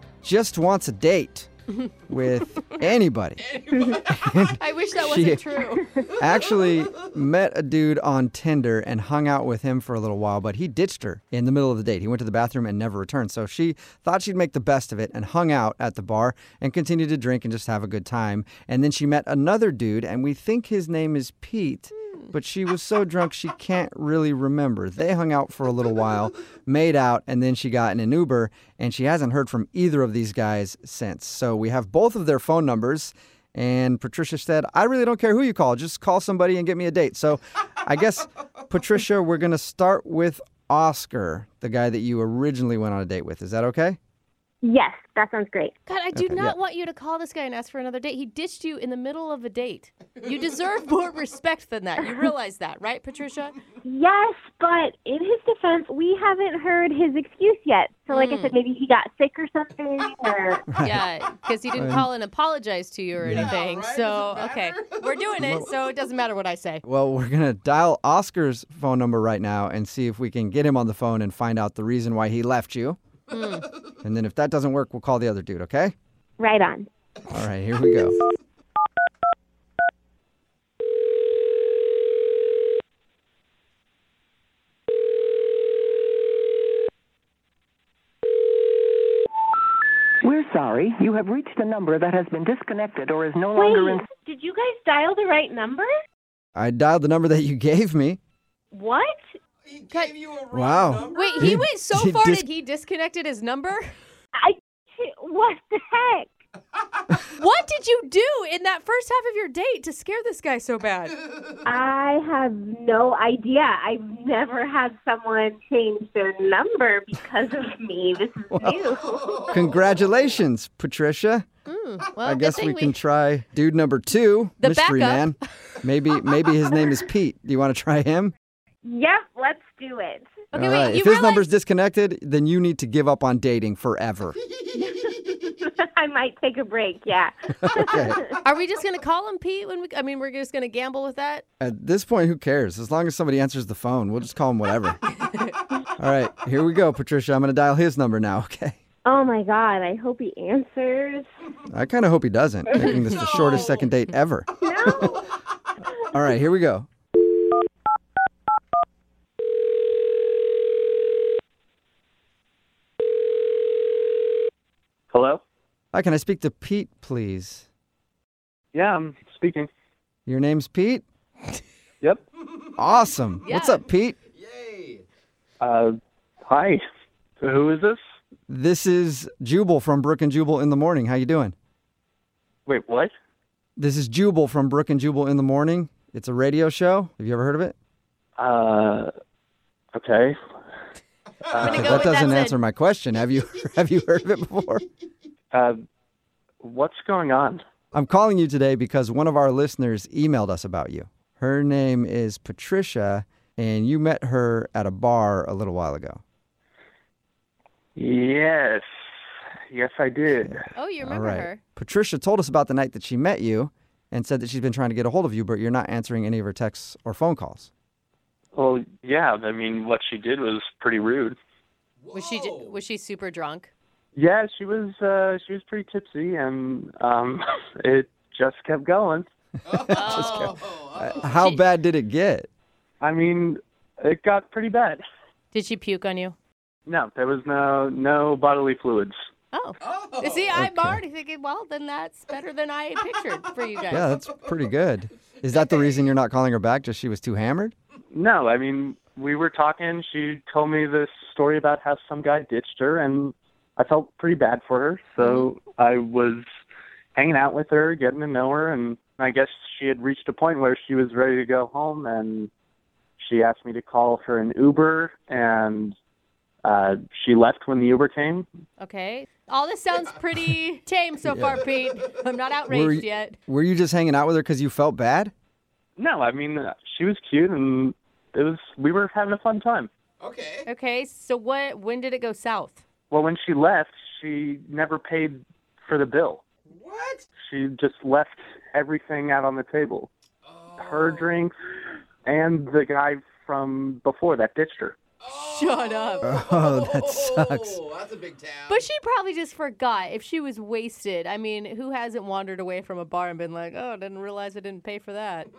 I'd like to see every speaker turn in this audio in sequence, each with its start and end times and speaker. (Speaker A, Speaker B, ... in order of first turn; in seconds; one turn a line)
Speaker A: 0.2-1.5
Speaker A: 2.1-3.5
Speaker B: 3.4-4.4
Speaker A: 4.0-5.4
Speaker C: 4.6-5.9
Speaker A: 6.0-44.0
Speaker B: 6.2-6.9
Speaker D: 44.6-45.7
Speaker C: 45.9-53.5
Speaker A: 46.1-46.5
Speaker D: 53.8-60.7
Speaker C: 58.1-58.5
Speaker A: 60.7-61.0
Speaker C: 60.8-66.8
Speaker A: 61.7-62.1
Speaker A: 63.2-63.5
Speaker B: 63.3-65.7
Speaker A: 65.4-65.7
Speaker A: 66.8-73.0
Speaker C: 73.3-73.7
Speaker A: 74.0-75.9
Speaker D: 76.4-76.9
Speaker A: 77.3-78.1
Speaker E: 90.2-94.0
Speaker D: 93.5-95.9
Speaker A: 96.5-98.2
Speaker D: 98.7-99.2
Speaker B: 99.7-101.6
Speaker A: 100.5-102.4
Speaker C: 101.1-103.9
Speaker D: 104.4-106.3
Speaker C: 107.3-111.2
Speaker D: 111.6-119.6
Speaker A: 118.5-118.8
Speaker B: 119.2-119.9
Speaker A: 119.5-121.5
Speaker C: 121.7-123.0
Speaker A: 122.2-128.3
Speaker C: 124.6-125.4
Speaker D: 128.8-130.4
Speaker C: 130.5-131.5
Speaker A: 130.5-134.3
Speaker D: 134.7-138.4
Speaker A: 137.6-138.2
Speaker C: 138.4-141.4
Speaker A: 141.6-145.0
Speaker C: 145.2-145.5
Speaker A: 146.0-148.8
Speaker D: 149.0-151.3
Speaker A: 151.7-155.1
Speaker B: 153.1-153.9
Speaker D: 154.6-155.3
Speaker A: 156.1-156.9
Speaker F: 165.1-165.4
Speaker A: 165.9-167.7
Speaker F: 168.7-169.7
Speaker A: 170.2-171.0
Speaker A: 172.8-174.2
Speaker C: 173.4-173.8
Speaker B: 174.3-175.0
Speaker F: 175.6-175.9
Speaker F: 176.4-176.8
Speaker F: 177.4-178.0
Speaker A: 178.5-181.6
Speaker F: 182.7-183.1
Speaker A: 183.8-187.8
Speaker F: 188.4-189.1
Speaker F: 189.9-190.4
Speaker F: 191.5-192.1
Speaker C: 191.6-192.6
Speaker A: 191.6-194.8
Speaker F: 195.5-195.8
Speaker F: 196.6-197.6
Speaker A: 197.9-206.2
Speaker F: 208.0-208.8
Speaker F: 209.7-210.7
Speaker A: 210.5-217.7
Speaker C: 210.7-211.6
Speaker F: 218.5-221.3
Speaker B: 222.0-222.7
Speaker C: 222.1-223.7
Speaker F: 224.2-229.3
Speaker B: 229.7-231.4
Speaker C: 229.9-230.5
Speaker A: 229.9-232.5
Speaker C: 231.3-231.6
Speaker F: 233.0-235.0
Speaker C: 235.5-236.3
Speaker F: 236.9-239.1
Speaker C: 239.5-244.1
Speaker B: 239.8-240.5
Speaker A: 240.5-241.0
Speaker A: 243.9-247.7
Speaker F: 248.1-256.4
Speaker C: 255.2-255.5
Speaker F: 257.1-262.5
Speaker F: 263.2-266.0
Speaker F: 266.6-268.4
Speaker C: 268.8-273.4
Speaker A: 271.3-271.6
Speaker A: 272.7-275.3
Speaker F: 276.0-279.9
Speaker B: 280.2-280.7
Speaker C: 280.6-282.8
Speaker F: 283.1-286.5
Speaker B: 286.7-287.2
Speaker F: 287.4-290.1
Speaker B: 290.4-291.3
Speaker F: 290.8-291.5
Speaker F: 292.2-295.0
Speaker B: 295.2-298.9
Speaker C: 295.3-296.3
Speaker A: 296.2-297.8
Speaker C: 298.7-305.5